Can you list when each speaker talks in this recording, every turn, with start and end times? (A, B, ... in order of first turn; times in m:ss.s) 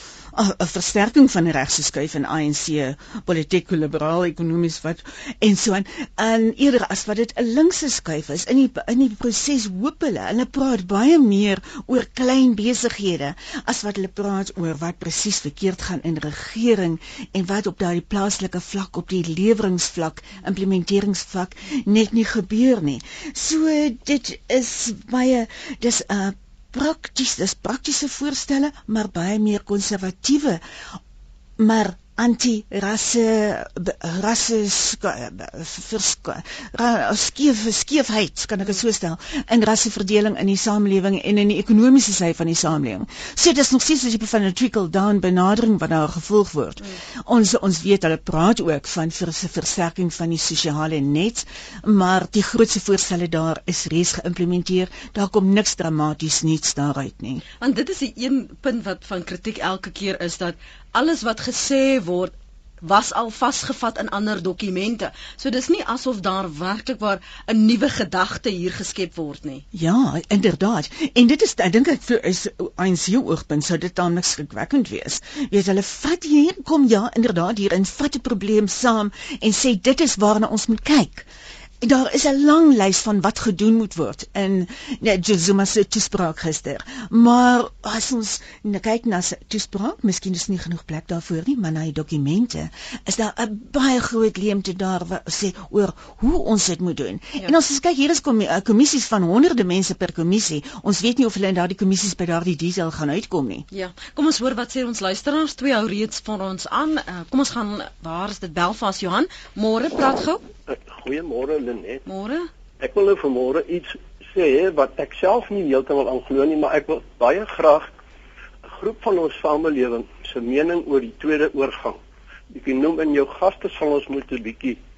0:00.3-0:30.6 A
0:31.6-0:57.4 A
0:57.6-1:09.6 B
1:09.7-1:21.3 A
1:21.8-1:43.7 A
1:43.7-1:50.4 B
1:50.7-1:52.1 C
1:52.1-1:52.5 B
1:52.8-1:57.9 C
1:58.6-2:02.0 C
2:02.5-2:04.8 C